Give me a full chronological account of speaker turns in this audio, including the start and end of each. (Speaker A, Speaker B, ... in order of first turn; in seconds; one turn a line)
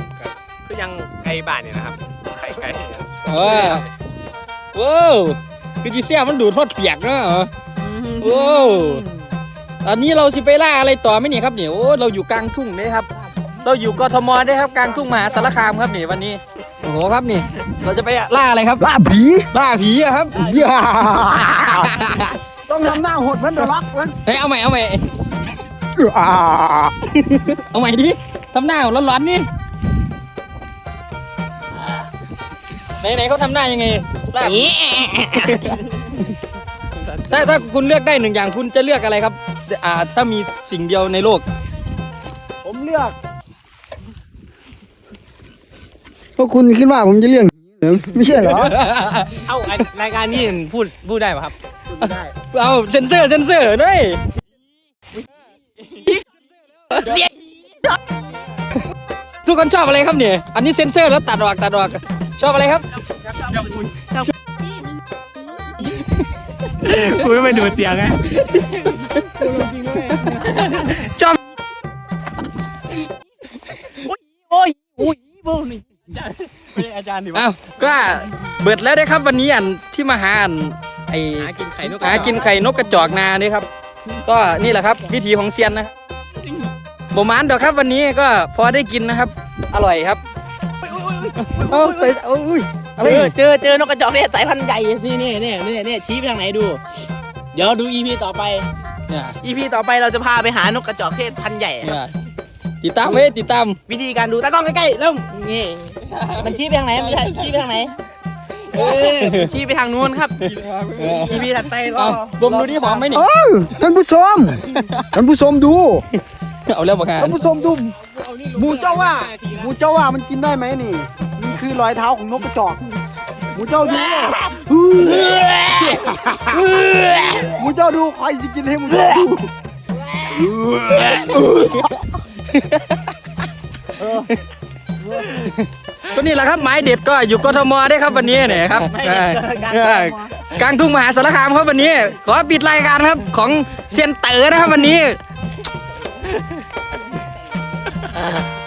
Speaker A: 0.2-3.8
Speaker B: 3.2-3.9
Speaker B: 4.7-7.5
Speaker C: 7.8-9.1
Speaker B: 8.2-9.0
Speaker B: 9.8-13.1
Speaker B: 13.6-18.9
Speaker D: 18.8-19.5
Speaker B: 19.5-20.5
Speaker C: 20.4-20.8
Speaker D: 20.4-21.9
Speaker B: 21.4-22.4
Speaker D: 22.7-24.2
Speaker B: 24.3-25.1
Speaker D: 26.0-26.9
Speaker B: 27.1-29.5
Speaker B: 33.0-34.8
Speaker C: 34.4-35.8
Speaker B: 35.3-35.7
Speaker B: 37.3-41.4
Speaker D: 42.6-43.2
Speaker D: 46.4-48.7
Speaker B: 48.4-49.5
Speaker A: 49.5-51.5
Speaker D: 51.9-52.3
Speaker B: 52.0-54.2
Speaker B: 59.5-62.9
Speaker C: 64.0-64.3
Speaker A: 66.9-68.3
Speaker B: 70.8-71.4
Speaker C: 73.9-75.8
Speaker A: 76.7-77.5
Speaker B: 77.3-83.7
Speaker A: 81.4-82.4
Speaker C: 81.6-82.5
Speaker B: 84.2-85.9
Speaker B: 87.1-90.2
Speaker C: 90.9-92.1
Speaker B: 91.5-93.3
Speaker C: 93.0-96.8
Speaker C: 97.5-98.7
Speaker B: 99.1-99.3
Speaker C: 99.4-102.0
Speaker B: 101.8-102.1
Speaker B: 102.8-103.8
Speaker C: 103.9-107.9
Speaker B: 106.1-106.5
Speaker C: 108.7-110.4
Speaker B: 108.8-109.5
Speaker B: 110.4-113.3
Speaker C: 111.0-113.0
Speaker D: 113.1-116.0
Speaker B: 114.8-115.1
Speaker B: 116.7-117.4
Speaker D: 117.2-118.0
Speaker A: 118.1-119.7
Speaker D: 118.5-122.8
Speaker D: 123.5-125.5
Speaker C: 125.2-126.0
Speaker B: 125.8-127.6
Speaker D: 127.5-129.5
Speaker C: 130.1-130.5
Speaker D: 130.4-131.3
Speaker B: 130.8-131.8
Speaker B: 132.5-133.0
Speaker B: 136.1-145.2
Speaker C: 138.5-140.4